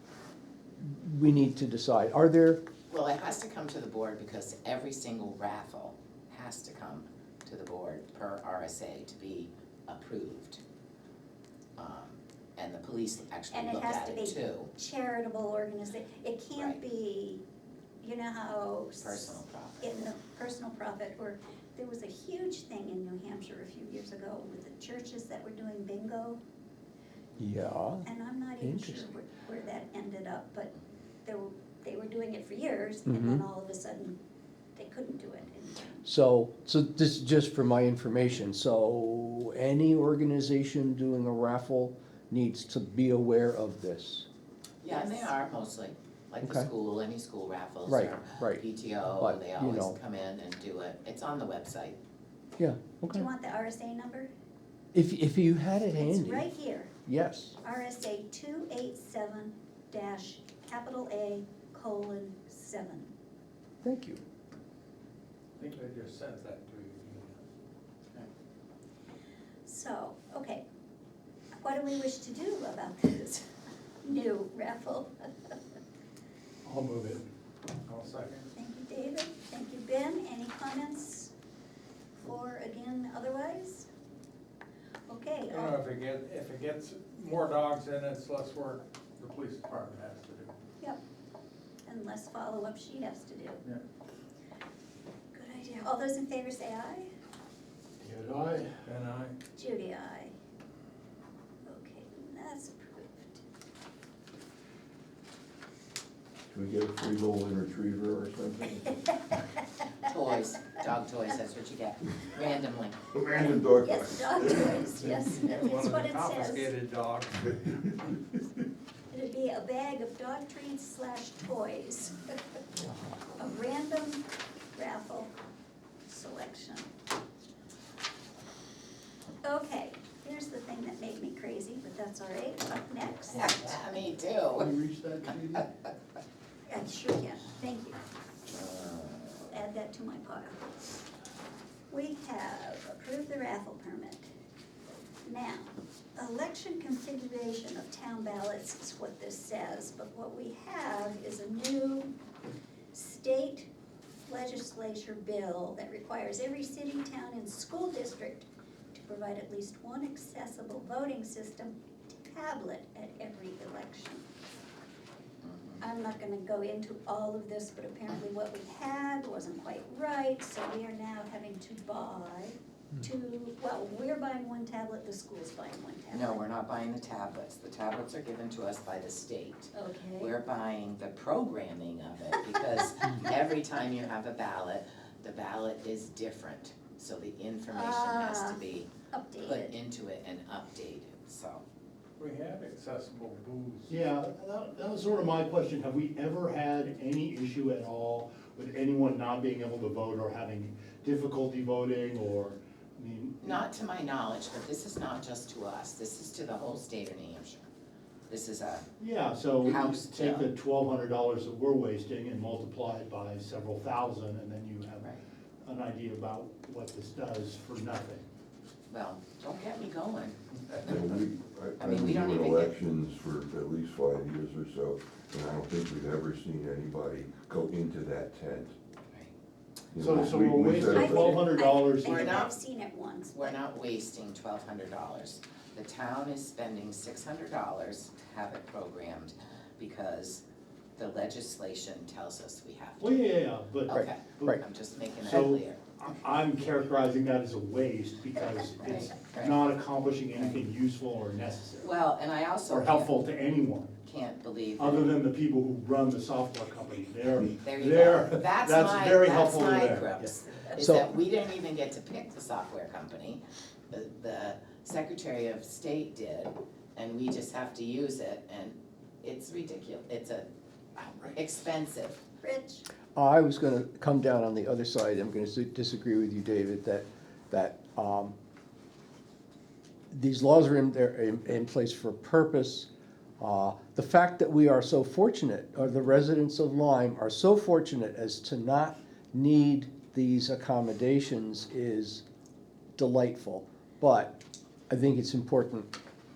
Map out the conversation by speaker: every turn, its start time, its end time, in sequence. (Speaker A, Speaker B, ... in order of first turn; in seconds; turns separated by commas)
Speaker A: 0.8-2.6, Speaker B: 2.9-10.6, Speaker B: 11.8-14.7, Speaker C: 13.5-17.4, Speaker C: 18.0-26.4, Speaker B: 19.0-20.1, Speaker A: 27.4-28.1, Speaker C: 28.0-30.7, Speaker A: 28.6-29.1, Speaker C: 31.2-34.2, Speaker A: 33.0-33.4, Speaker C: 34.8-35.9, Speaker A: 36.0-44.2, Speaker B: 44.8-52.0, Speaker C: 44.9-45.3, Speaker A: 46.4-46.7, Speaker A: 47.9-48.6, Speaker A: 49.2-49.9, Speaker A: 52.6-53.3, Speaker C: 53.1-54.3, Speaker A: 54.9-56.5, Speaker C: 55.9-56.9, Speaker A: 57.0-57.5, Speaker C: 57.6-63.1, Speaker A: 63.8-64.2, Speaker D: 65.6-67.4, Speaker C: 69.7-70.6, Speaker C: 71.6-73.4, Speaker C: 74.0-75.5, Speaker E: 76.6-77.2, Speaker D: 77.8-78.5, Speaker C: 78.5-81.3, Speaker C: 82.2-83.9, Speaker C: 85.1-85.8, Speaker D: 85.5-90.5, Speaker C: 91.8-93.6, Speaker C: 95.3-97.1, Speaker E: 98.0-98.7, Speaker D: 98.8-99.3, Speaker C: 99.5-100.3, Speaker C: 101.6-103.4, Speaker F: 106.5-108.8, Speaker B: 110.0-113.5, Speaker F: 113.1-114.8, Speaker C: 113.8-116.7, Speaker D: 115.4-117.9, Speaker C: 119.1-122.1, Speaker C: 123.4-124.2, Speaker C: 124.7-125.3, Speaker C: 126.1-126.9, Speaker C: 129.4-133.7, Speaker B: 133.3-134.7, Speaker E: 134.5-135.7, Speaker C: 136.7-138.0, Speaker B: 138.5-139.3, Speaker C: 139.5-140.7, Speaker C: 141.9-144.3, Speaker C: 145.2-152.1, Speaker C: 152.9-153.7, Speaker C: 154.3-164.2, Speaker B: 165.4-165.8, Speaker C: 165.8-176.4, Speaker B: 176.1-188.9, Speaker C: 179.7-180.3, Speaker C: 187.7-188.6, Speaker C: 189.1-189.7, Speaker B: 189.4-191.6, Speaker D: 192.2-193.9, Speaker E: 193.9-203.6, Speaker B: 203.4-207.6, Speaker B: 208.3-208.8, Speaker E: 209.0-218.2, Speaker B: 209.6-210.5, Speaker B: 218.9-221.1, Speaker F: 220.8-228.8, Speaker B: 221.8-222.7, Speaker F: 229.9-231.5, Speaker E: 229.9-232.5, Speaker C: 230.8-233.6, Speaker B: 232.0-232.5, Speaker B: 233.3-240.4, Speaker B: 241.0-243.3, Speaker E: 243.0-244.6, Speaker B: 243.9-245.8, Speaker A: 243.9-244.6, Speaker E: 245.2-251.9, Speaker B: 248.8-249.6, Speaker B: 250.3-250.6, Speaker B: 251.8-253.2, Speaker E: 252.7-254.0, Speaker B: 254.0-255.1, Speaker E: 254.8-260.1, Speaker B: 257.6-272.2, Speaker A: 260.8-261.1, Speaker C: 272.4-272.9, Speaker A: 273.1-278.3, Speaker A: 280.1-282.9, Speaker A: 283.4-292.2, Speaker A: 292.9-294.4, Speaker A: 294.9-295.9